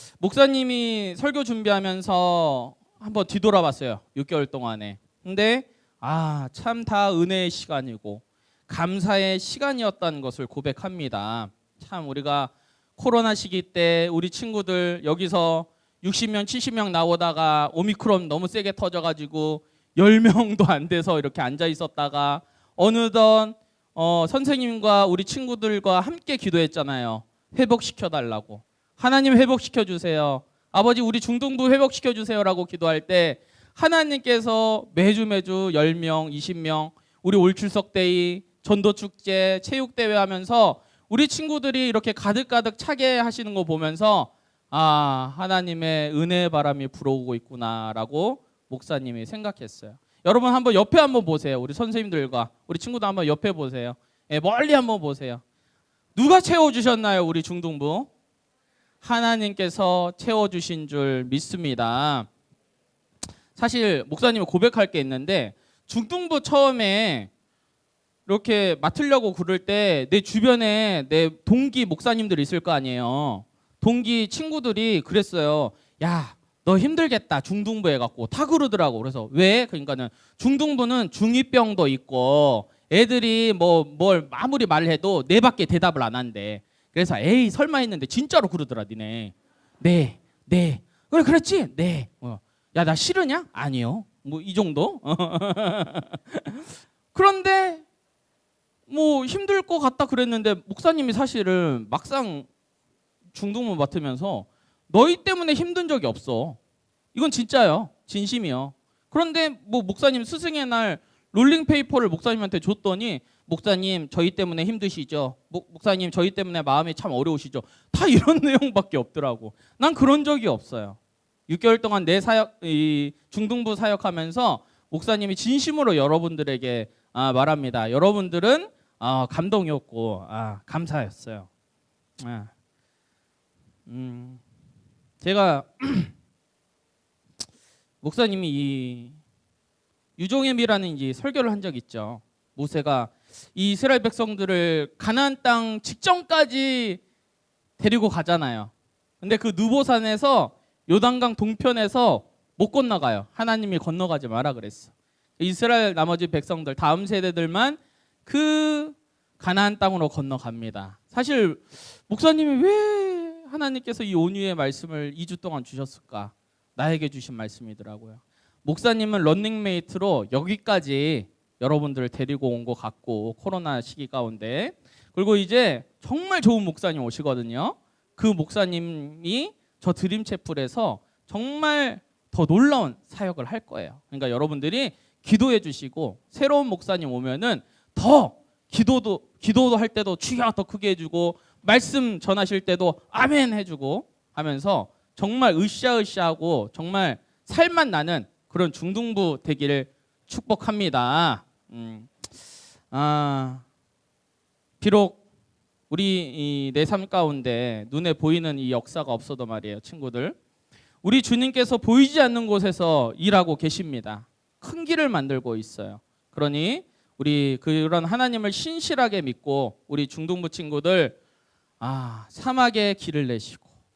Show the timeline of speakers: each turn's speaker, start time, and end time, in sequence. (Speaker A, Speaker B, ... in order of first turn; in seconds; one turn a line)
Speaker A: 0.2-55.4
Speaker A: 56.1-58.1
Speaker A: 59.0-62.3
Speaker A: 63.5-67.3
Speaker A: 68.3-97.8
Speaker A: 98.9-102.5
Speaker A: 103.3-106.6
Speaker A: 107.1-131.5
Speaker A: 132.2-132.5
Speaker A: 133.9-134.4
Speaker A: 135.2-136.1
Speaker A: 138.0-139.2
Speaker A: 140.2-147.0
Speaker A: 147.8-202.1
Speaker A: 202.9-203.6
Speaker A: 204.8-205.2
Speaker A: 205.9-210.3
Speaker A: 211.0-221.2
Speaker A: 221.8-223.6